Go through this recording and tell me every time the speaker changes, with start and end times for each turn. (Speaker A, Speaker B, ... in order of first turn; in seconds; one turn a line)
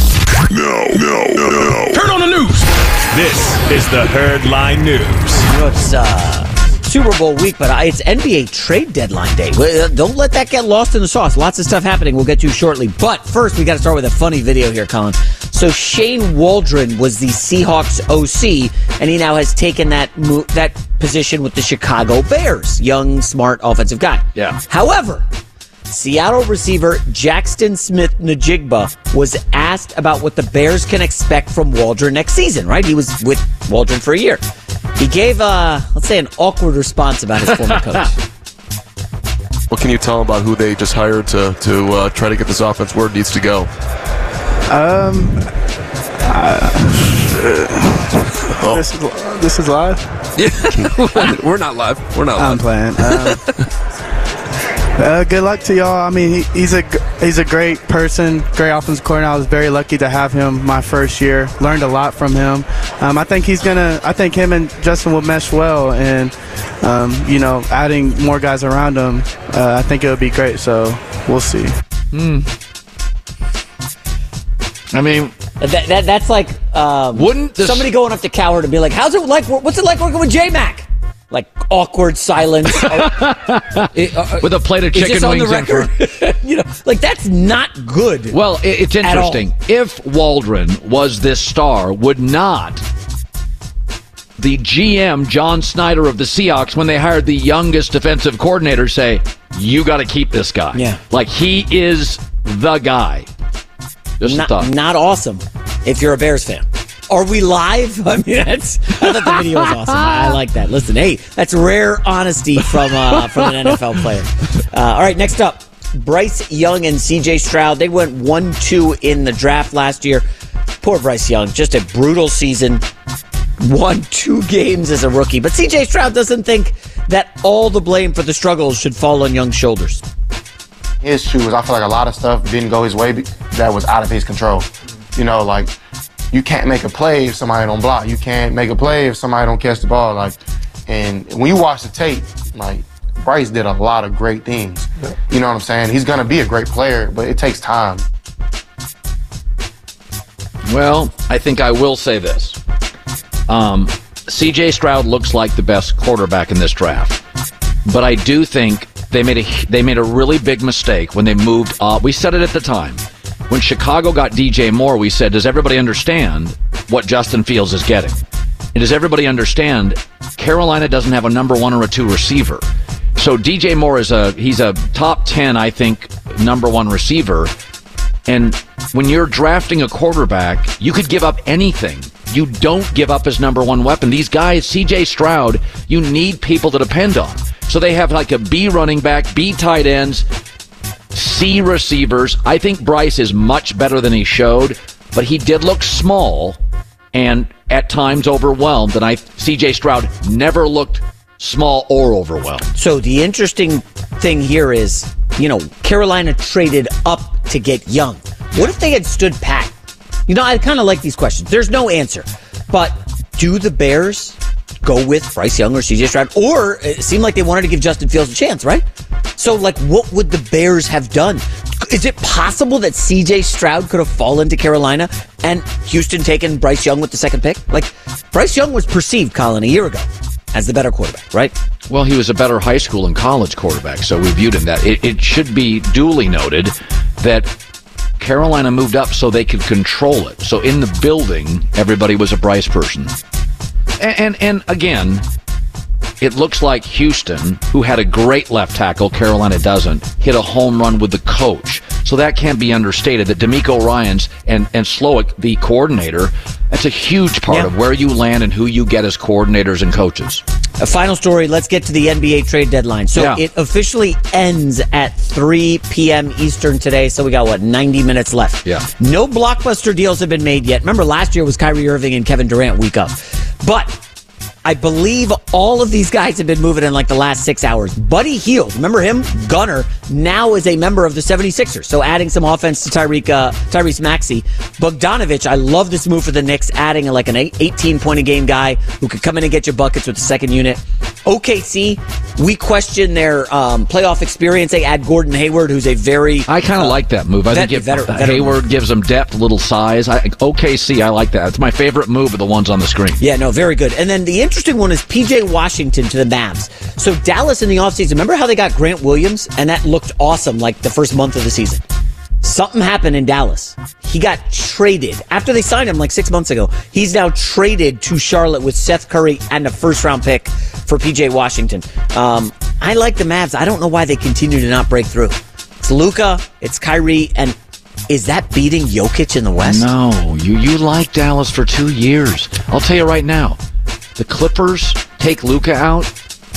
Speaker A: 0.6-5.5
Speaker B: 5.5-25.3
Speaker C: 24.4-24.6
Speaker B: 25.9-34.4
Speaker B: 35.0-38.2
Speaker D: 39.7-43.7
Speaker E: 44.7-45.5
Speaker E: 46.3-50.2
Speaker D: 50.8-53.4
Speaker E: 52.4-53.4
Speaker E: 55.0-71.8
Speaker C: 72.1-72.5
Speaker C: 74.9-75.3
Speaker B: 75.6-88.4
Speaker C: 77.2-77.9
Speaker C: 82.8-85.9
Speaker C: 88.3-92.8
Speaker B: 89.0-89.4
Speaker C: 94.4-103.3
Speaker B: 100.7-101.0
Speaker C: 104.2-104.7
Speaker B: 104.2-120.2
Speaker B: 120.8-122.8
Speaker B: 123.6-130.0
Speaker F: 131.0-135.7
Speaker F: 136.3-140.4
Speaker F: 140.9-148.1
Speaker C: 150.7-152.6
Speaker C: 153.5-157.2
Speaker C: 157.8-168.2
Speaker C: 168.7-177.5
Speaker C: 178.3-190.3
Speaker C: 191.1-196.6
Speaker C: 197.1-202.7
Speaker B: 202.8-209.7
Speaker B: 210.3-218.9
Speaker B: 219.4-231.6
Speaker C: 231.9-237.5
Speaker C: 238.2-243.2
Speaker C: 244.0-245.2
Speaker C: 246.2-260.4
Speaker B: 260.8-274.0
Speaker C: 263.1-263.4
Speaker B: 274.6-297.0
Speaker C: 296.5-303.2
Speaker B: 297.5-298.6
Speaker B: 303.2-311.8
Speaker B: 312.4-327.6
Speaker B: 328.1-329.9
Speaker C: 329.6-333.6
Speaker C: 334.2-336.1